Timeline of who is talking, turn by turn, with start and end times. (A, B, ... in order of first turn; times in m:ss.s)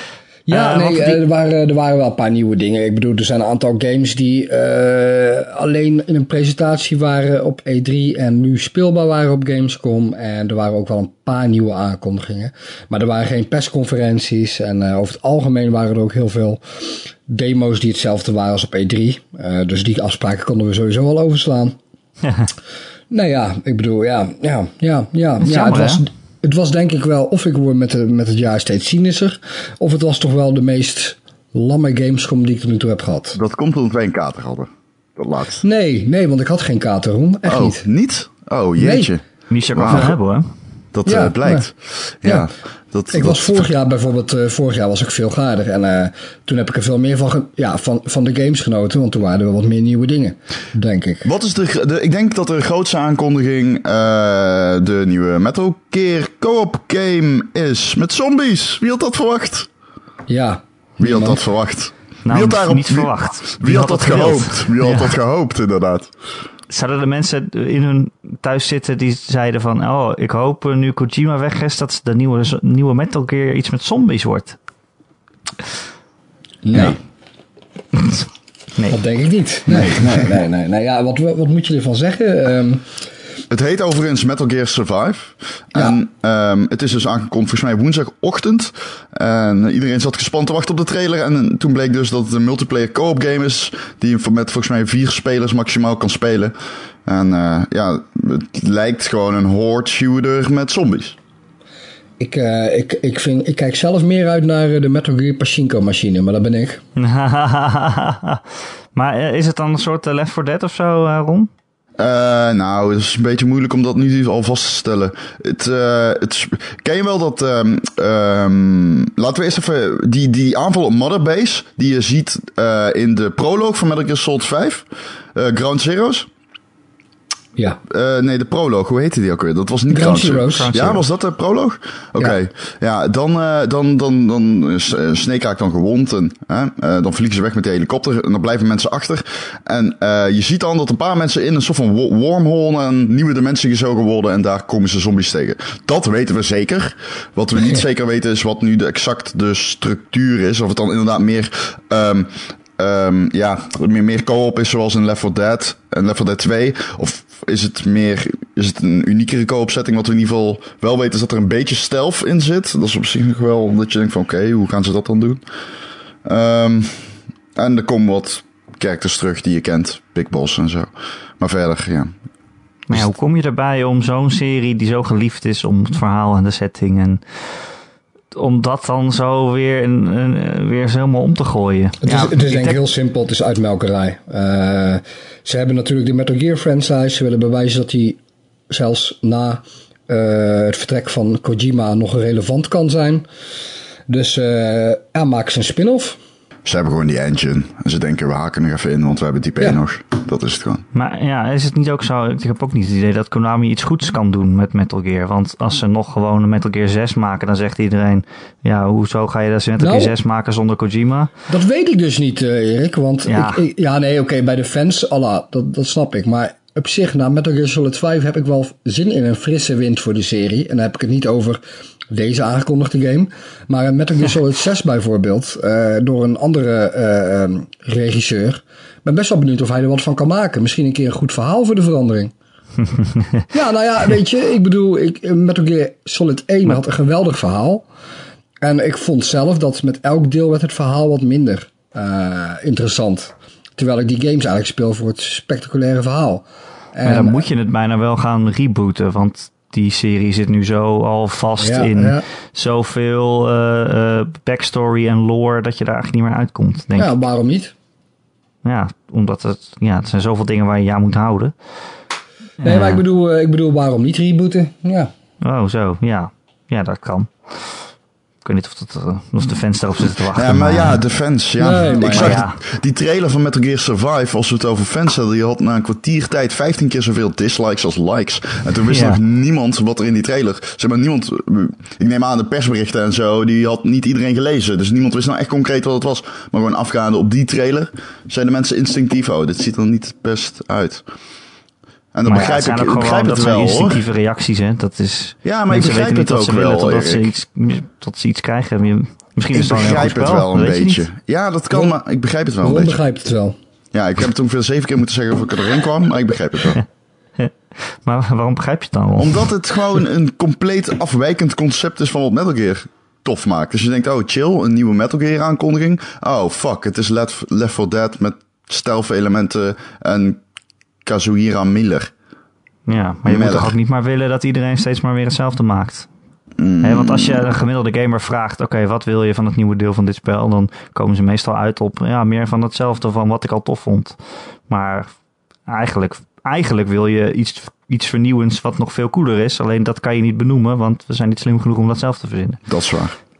0:00.5-0:16.6 A
0:00.5-0:01.2 B
0:17.3-0:21.8 A
0:22.2-0:22.5 B
0:23.1-0:33.4 A
0:25.4-0:26.0 B
0:33.3-0:35.6 C
0:35.6-0:37.8 A
0:37.4-0:40.1 C
0:38.8-0:39.1 A
0:39.5-0:40.4 B
0:40.9-0:43.7 C
0:41.0-0:41.7 A
0:43.1-0:51.3 A
0:51.2-0:59.7 C
1:00.3-1:01.4 A
1:01.0-1:06.1 C
1:02.2-1:05.1 B
1:06.7-1:14.6 B
1:16.6-1:17.0 A
1:17.9-1:19.0 B
1:18.9-1:22.8 A
1:19.7-1:20.3 C
1:23.5-1:36.5 C
1:37.0-1:41.2 C
1:42.2-1:46.8 A
1:47.0-1:48.4 B
1:48.9-1:51.5 B
1:52.0-2:06.3 C
2:07.9-2:45.4 C
2:09.9-2:10.7 A
2:10.4-2:11.0 B
2:46.2-2:52.1 C
2:52.9-2:57.2 B
2:58.3-3:02.8 B
3:02.0-3:13.2 A
3:14.1-3:16.2 A
3:16.6-3:20.8 C
3:20.9-3:31.3 B
3:29.8-3:30.1 A
3:31.5-3:52.3 A
3:33.3-3:33.6 B
3:53.5-3:57.8 A
3:58.6-4:07.4 A
4:07.0-4:17.2 B
4:11.6-4:12.2 A
4:17.0-4:17.7 A
4:18.6-4:21.5 B
4:22.6-4:23.0 B
4:22.6-4:25.1 A
4:25.4-4:27.3 B
4:28.4-4:31.0 B
4:30.3-4:51.0 C
4:31.6-4:32.4 A
4:31.8-4:32.6 B
4:38.9-4:39.2 B
4:52.1-4:54.0 C
4:52.2-5:01.0 B
4:55.4-4:57.3 C
4:59.5-5:03.0 C
5:02.6-5:03.6 A
5:03.9-5:06.8 C
5:08.0-5:09.5 B
5:09.2-5:20.4 C
5:21.0-5:22.1 C
5:22.9-5:26.1 B
5:23.2-5:23.7 C
5:26.6-5:27.4 C
5:26.8-5:34.2 B
5:34.7-5:35.1 B
5:35.7-5:42.6 B
5:42.7-5:43.2 C